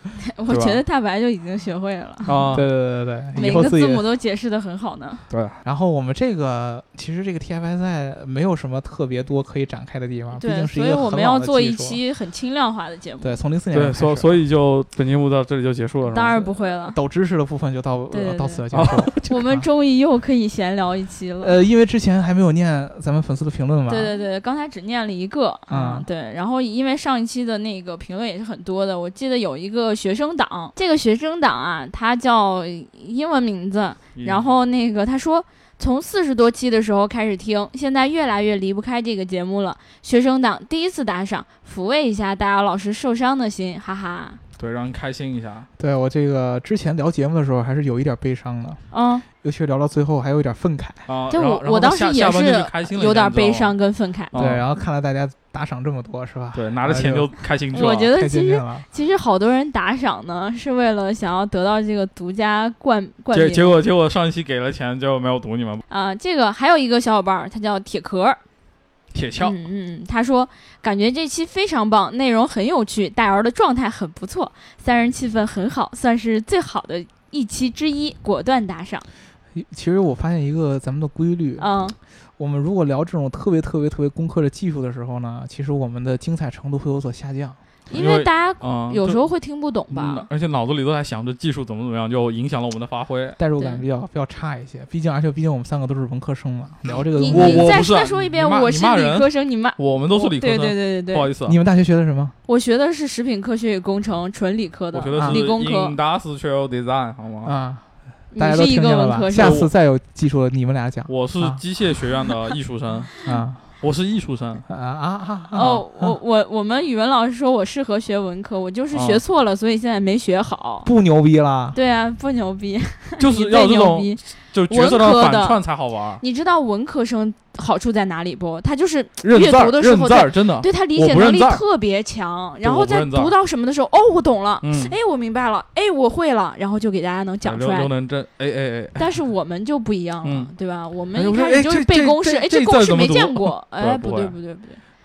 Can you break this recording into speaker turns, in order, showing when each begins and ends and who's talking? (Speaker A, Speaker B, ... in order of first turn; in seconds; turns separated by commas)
Speaker A: 0.2-2.5, Speaker B: 0.5-0.8, Speaker B: 2.3-2.7, Speaker C: 2.5-4.0, Speaker A: 3.3-5.2, Speaker B: 5.3-5.6, Speaker C: 5.6-12.0, Speaker A: 10.3-13.4, Speaker C: 13.2-14.4, Speaker B: 13.7-16.4, Speaker A: 16.1-17.0, Speaker C: 16.9-19.6, Speaker A: 18.1-21.6, Speaker B: 18.7-19.3, Speaker C: 21.4-24.1, Speaker A: 23.9-44.4, Speaker C: 25.7-26.1, Speaker B: 34.1-34.4, Speaker B: 44.6-45.7, Speaker C: 45.8-48.8, Speaker A: 48.9-49.2, Speaker C: 49.4-51.1, Speaker B: 51.1-53.8, Speaker A: 51.3-54.4, Speaker B: 54.3-54.6, Speaker C: 54.4-57.3, Speaker B: 56.5-58.1, Speaker A: 57.7-63.8, Speaker C: 57.9-58.9, Speaker B: 63.3-65.8, Speaker A: 65.9-68.4, Speaker B: 69.1-69.6, Speaker A: 69.4-79.1, Speaker C: 79.5-81.7, Speaker A: 81.6-82.0, Speaker C: 82.4-87.6, Speaker A: 87.9-90.3, Speaker B: 87.9-89.2, Speaker B: 89.9-93.4, Speaker C: 93.4-97.8, Speaker A: 97.1-101.3, Speaker B: 97.3-101.6, Speaker C: 101.4-102.3, Speaker A: 102.5-106.0, Speaker B: 104.9-107.5, Speaker C: 105.2-105.4, Speaker C: 107.4-111.6, Speaker A: 108.3-109.6, Speaker B: 109.3-109.7, Speaker B: 111.1-113.1, Speaker C: 113.2-113.6, Speaker B: 113.8-114.7, Speaker C: 114.7-116.2, Speaker A: 115.5-120.9, Speaker B: 118.9-119.2, Speaker C: 120.8-121.8, Speaker A: 121.7-125.6, Speaker B: 123.2-126.2, Speaker A: 126.2-137.9, Speaker B: 129.2-131.6, Speaker B: 132.6-133.3, Speaker B: 134.6-134.9, Speaker B: 137.4-139.1, Speaker A: 139.0-144.8, Speaker B: 140.2-140.5, Speaker C: 141.2-141.4, Speaker B: 141.4-144.4